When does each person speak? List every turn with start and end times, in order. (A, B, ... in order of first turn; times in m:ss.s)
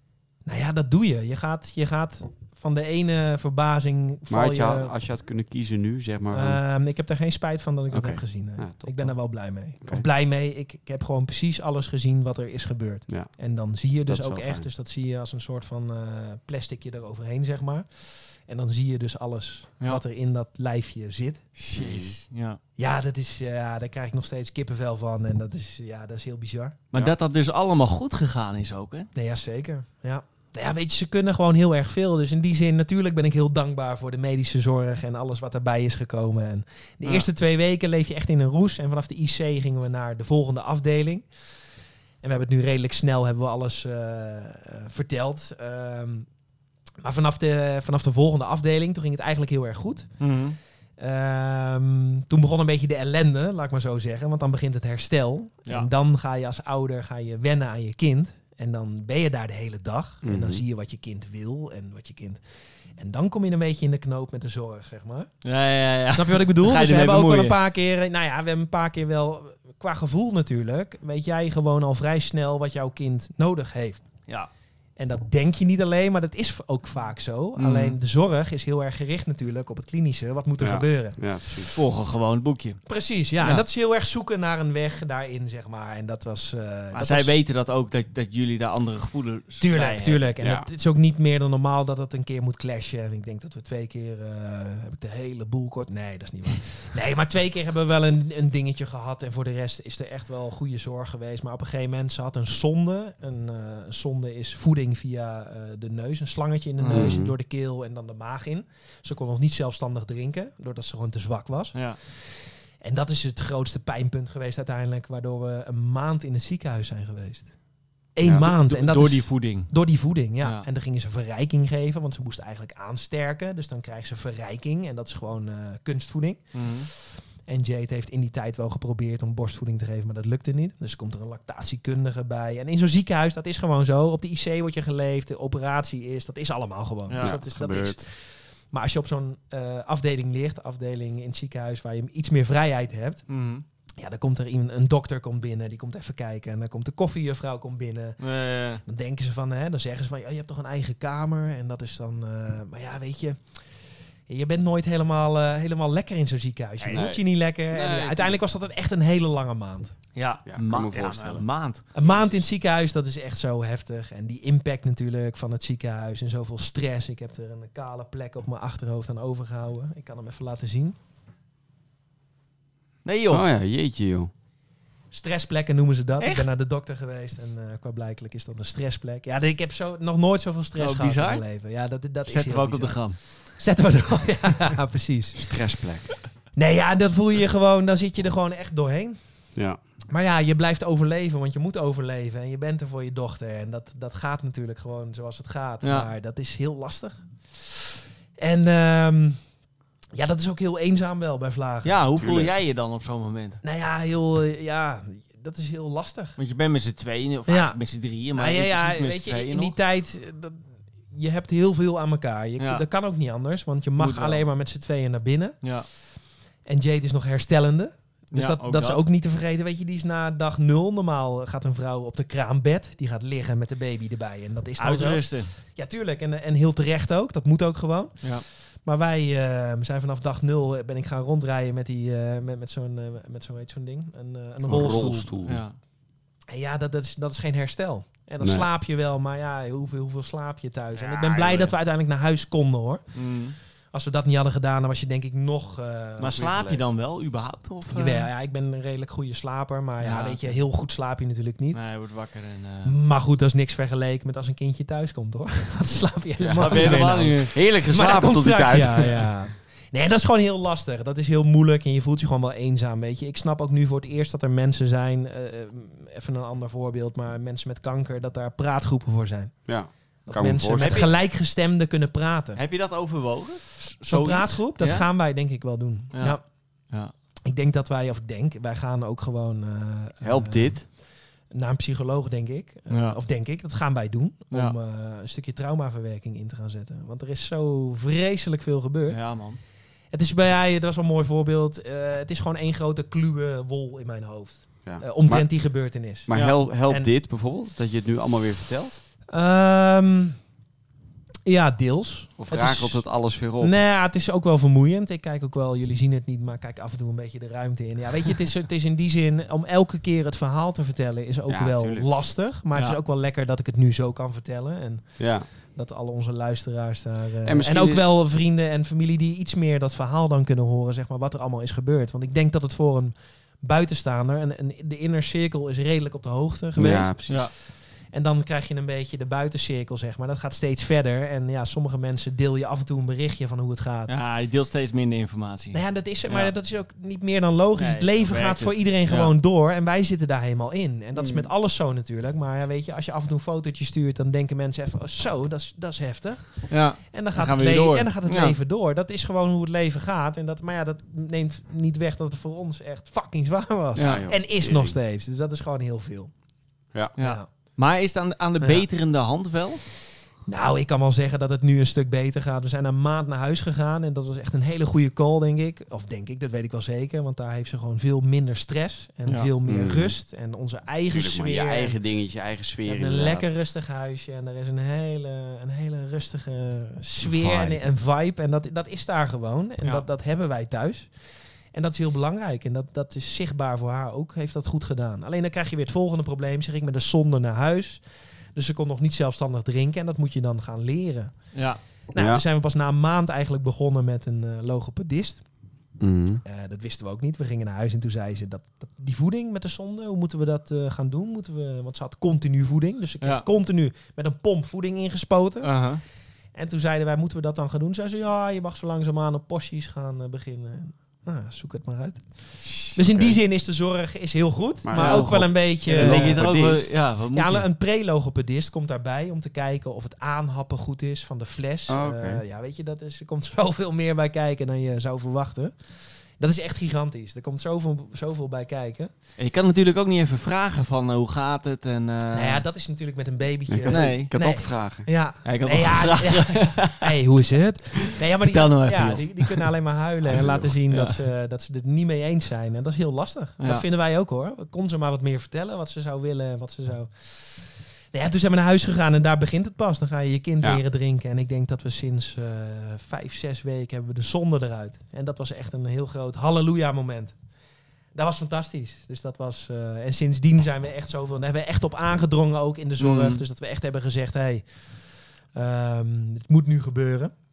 0:00.4-0:04.9 A
0:04.3-0:06.6 B
0:06.3-0:21.4 A
0:07.9-0:09.2 B
0:13.1-0:13.3 B
0:14.1-0:14.7 B
0:21.6-0:22.6 C
0:21.7-0:22.2 B
0:22.8-0:26.8 A
0:26.9-0:29.1 C
0:29.1-0:41.2 A
0:42.2-0:46.3 A
0:47.0-0:50.1 A
0:50.2-0:50.6 C
0:51.0-1:02.4 A
1:00.2-1:00.6 B
1:03.0-1:05.3 A
1:05.4-1:07.6 C
1:06.1-1:14.0 A
1:15.0-1:21.2 A
1:17.6-1:18.0 C
1:20.6-1:21.7 B
1:21.7-1:22.8 C
1:22.8-1:27.4 A
1:23.4-1:23.6 C
1:26.9-1:30.3 C
1:29.6-1:57.5 A
1:30.4-1:30.7 B
1:46.8-1:47.2 C
1:46.9-1:47.3 B
1:58.1-2:18.1 A
1:58.2-1:58.5 B
1:58.4-1:59.7 C
2:00.4-2:00.6 C
2:06.5-2:06.9 C
2:17.1-2:17.3 C
2:17.2-2:18.0 B
2:18.7-2:23.2 A
2:23.3-2:23.6 C
2:24.0-2:28.2 A
2:28.2-2:28.8 C
2:28.8-2:33.4 A
2:34.3-2:39.9 A
2:36.8-2:37.1 C
2:36.9-2:38.4 B
2:40.1-2:41.8 C
2:40.4-2:41.4 B
2:41.9-2:51.0 A
2:53.0-2:53.4 C
2:53.3-2:54.3 B
2:55.1-3:05.5 A
2:56.2-2:56.5 C
3:00.8-3:01.4 C
3:02.3-3:03.2 C
3:05.3-3:06.1 B
3:06.5-3:09.2 A
3:10.1-3:19.4 A
3:15.8-3:16.1 C
3:20.1-3:21.9 A
3:21.8-3:23.6 C
3:22.2-3:22.5 B
3:23.6-3:26.4 A
3:26.4-3:29.7 C
3:27.5-3:27.8 A
3:28.3-3:35.6 A
3:32.6-3:32.8 C
3:34.0-3:34.4 C
3:36.6-3:55.3 A
3:38.3-3:39.0 C
3:44.8-3:45.5 C
3:54.6-3:55.6 B
3:55.4-3:55.8 C
3:56.5-4:03.1 A
3:58.4-3:58.7 B
4:00.9-4:01.7 C
4:03.1-4:03.6 C
4:03.9-4:06.4 A
4:06.2-4:08.3 C
4:06.2-4:06.9 B
4:07.9-4:11.8 A
4:10.0-4:10.6 C
4:11.7-4:13.0 C
4:12.8-4:29.5 A
4:16.4-4:17.5 C
4:16.5-4:19.3 B
4:29.7-4:31.1 B
4:30.2-4:32.6 A
4:30.8-4:31.1 C
4:32.6-4:35.1 C
4:34.1-4:36.4 A
4:37.4-4:40.8 A
4:40.2-4:40.8 B
4:41.5-4:49.2 A
4:42.9-4:43.2 C
4:49.1-4:49.6 C
4:50.1-4:56.3 A
4:54.8-4:55.5 B
4:56.3-4:59.0 B
4:56.3-4:56.6 C
4:59.3-5:00.4 A
5:01.4-5:03.0 A
5:02.4-5:03.7 B
5:03.6-5:27.5 A
5:11.5-5:12.1 B
5:15.2-5:15.4 B
5:17.4-5:18.0 B
5:26.8-5:27.2 B
5:28.1-5:34.1 A
5:34.1-5:36.5 C
5:35.7-5:56.3 A
5:37.8-5:39.3 C
5:41.2-5:41.5 B
5:46.7-5:48.6 C
5:54.0-5:54.2 C
5:54.0-5:55.0 B
5:57.2-5:59.8 C
5:57.2-5:57.4 A
5:58.6-5:58.8 A
6:00.5-6:12.0 A
6:09.6-6:10.1 B
6:11.1-6:13.4 B
6:12.8-6:21.1 A
6:17.2-6:17.8 B
6:21.7-6:28.0 A
6:28.5-6:31.3 A
6:31.5-6:31.8 C
6:32.1-6:35.4 A
6:32.1-6:32.4 B
6:36.0-6:36.4 B
6:36.4-6:45.7 A
6:45.6-6:46.0 C
6:46.5-6:52.2 A
6:52.6-6:52.9 C
6:52.8-6:56.5 A
6:53.0-6:53.4 B
6:54.8-6:56.9 B
6:55.0-6:57.6 C
6:57.3-7:05.7 A
7:01.9-7:02.4 B
7:06.4-7:09.1 A
7:09.4-7:12.6 C
7:12.3-7:37.3 A
7:13.7-7:15.1 B
7:13.9-7:14.3 C
7:15.4-7:17.1 C
7:18.4-7:19.7 C
7:20.3-7:20.7 B
7:20.9-7:21.2 C
7:23.6-7:23.8 C
7:38.1-7:44.6 A
7:43.0-7:43.4 C
7:45.5-7:47.3 A